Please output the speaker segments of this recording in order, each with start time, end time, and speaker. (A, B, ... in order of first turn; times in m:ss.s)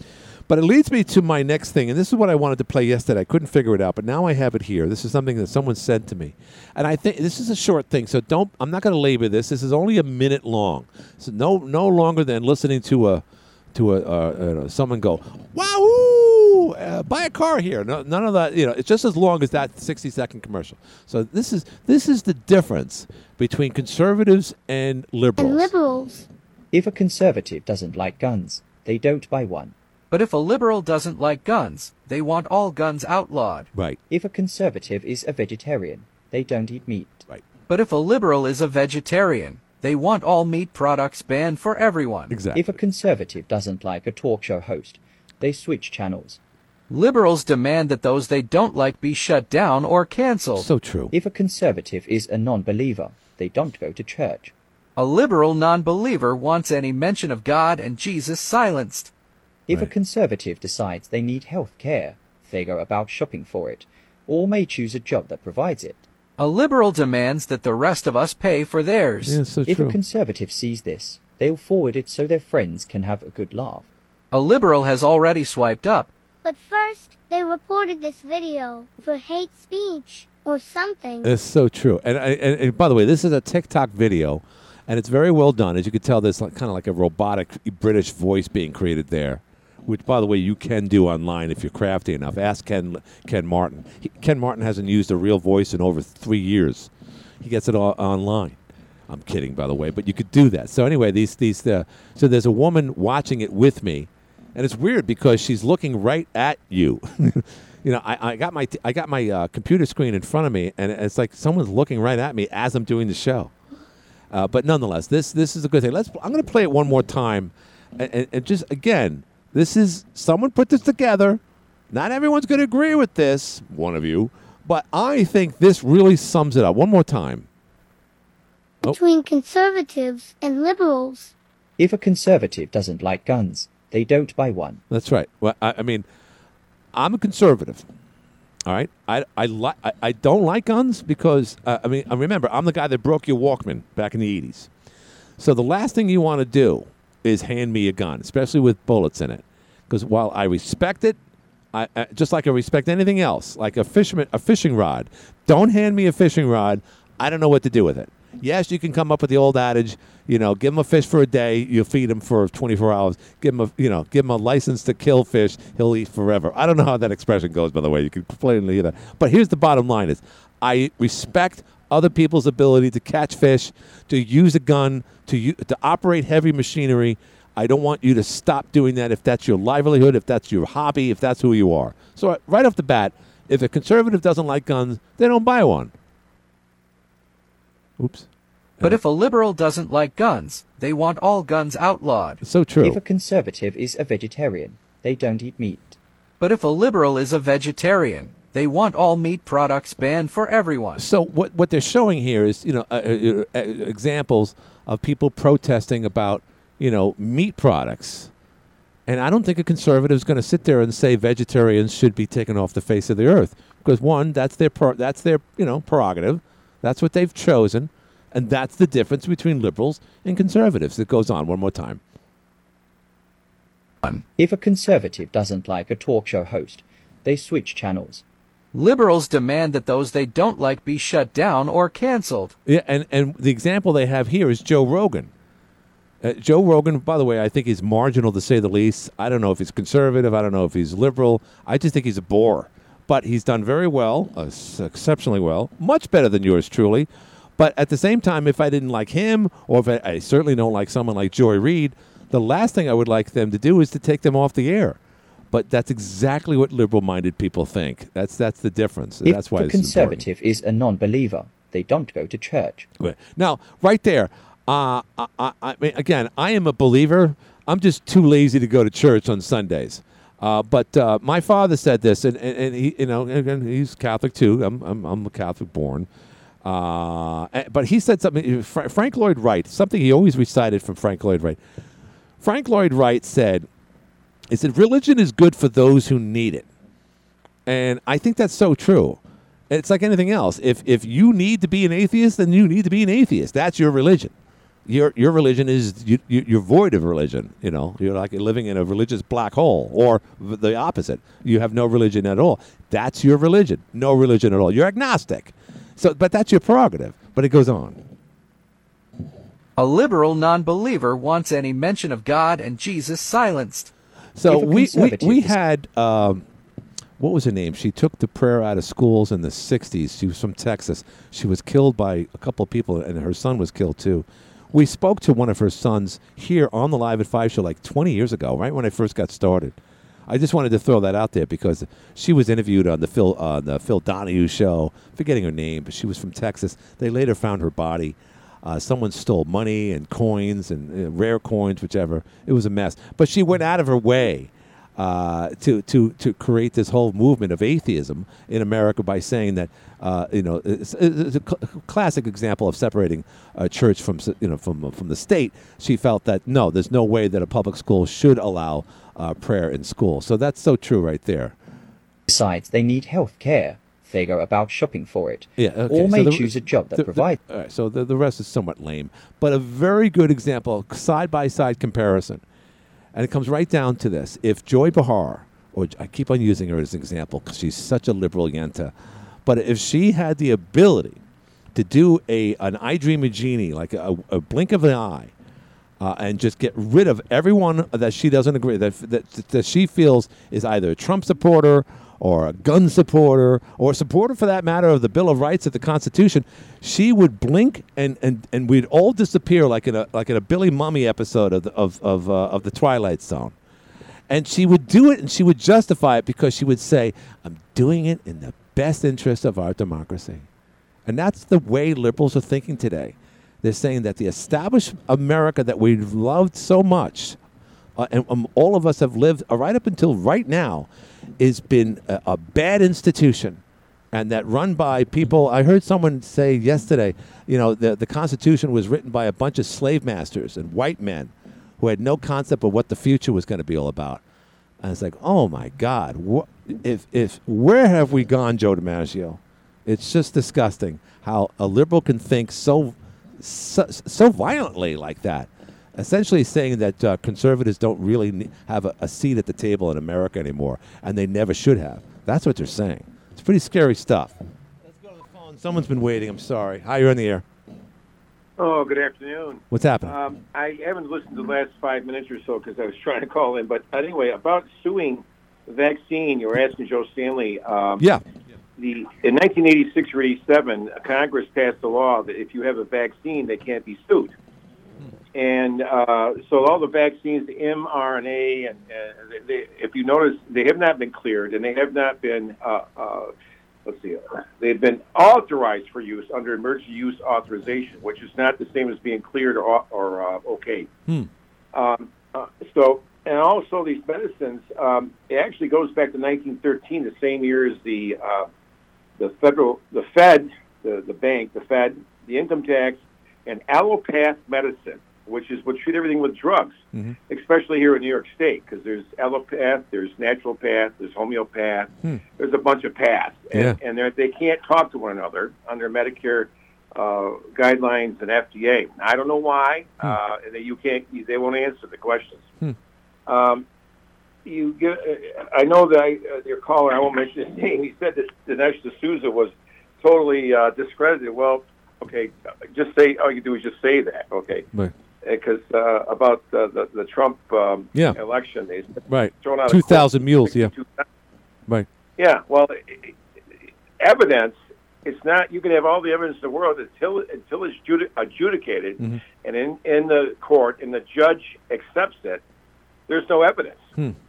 0:00.5-0:13.2 A
0:13.7-0:25.7 A
0:25.4-0:26.3 B
0:26.7-0:29.7 C
0:30.1-0:33.7 D
0:34.1-0:37.3 C
0:37.7-0:42.4 D
0:42.3-0:42.8 A
0:42.5-0:46.4 C
0:46.9-0:50.7 D
0:50.6-0:51.1 A
0:51.1-0:54.5 C
0:55.0-0:59.1 D
0:59.7-1:06.0 C
1:06.4-1:09.5 D
1:09.2-1:10.0 A
1:09.6-1:13.9 C
1:14.3-1:16.1 D
1:16.4-1:21.3 B
1:21.2-1:53.5 A
1:54.3-2:07.5 A
2:08.8-2:11.3 B
2:11.8-2:14.8 C
2:14.9-2:16.0 A
2:16.9-2:17.8 A
2:18.6-2:24.7 A
2:25.4-2:31.2 A
2:31.7-3:05.9 A
3:08.0-3:08.3 A
3:08.8-3:12.4 D
3:12.4-3:13.0 A
3:12.8-3:16.0 C
3:16.4-3:21.0 D
3:21.0-3:28.3 A
3:29.0-3:42.0 A
3:44.4-3:48.2 C
3:48.7-3:52.5 D
3:52.6-3:55.3 A
3:56.2-4:15.0 A
4:15.5-4:20.2 A
4:19.2-4:22.9 C
4:23.0-4:36.1 A
4:36.6-4:41.6 A
4:42.4-4:43.7 A
4:44.5-4:46.7 A
4:47.6-4:54.3 A
4:54.9-5:08.0 A
5:09.8-5:13.9 D
5:14.4-5:16.4 A
5:14.5-5:15.6 C
5:17.2-6:01.5 A
6:02.3-6:07.4 C
6:05.6-6:12.4 A
6:13.1-6:18.9 A
6:19.4-6:21.2 A
6:21.7-6:25.3 A
6:26.0-6:43.6 A
6:44.3-6:50.4 A
6:51.0-6:57.4 A
6:58.0-7:03.6 A
7:04.1-7:14.2 A
7:14.8-7:37.4 A
7:38.6-7:48.0 E
7:39.7-7:40.2 A
7:48.8-7:54.3 E
7:55.3-8:03.3 E
8:03.8-8:10.9 E
8:11.7-8:18.5 E
8:19.2-8:42.5 E
8:33.5-8:33.8 A
8:43.3-8:43.6 E
8:44.4-8:54.6 E
8:55.2-9:01.0 E
8:59.1-9:00.7 A
9:02.2-9:03.1 E
9:04.0-9:12.4 E
9:13.1-9:13.9 E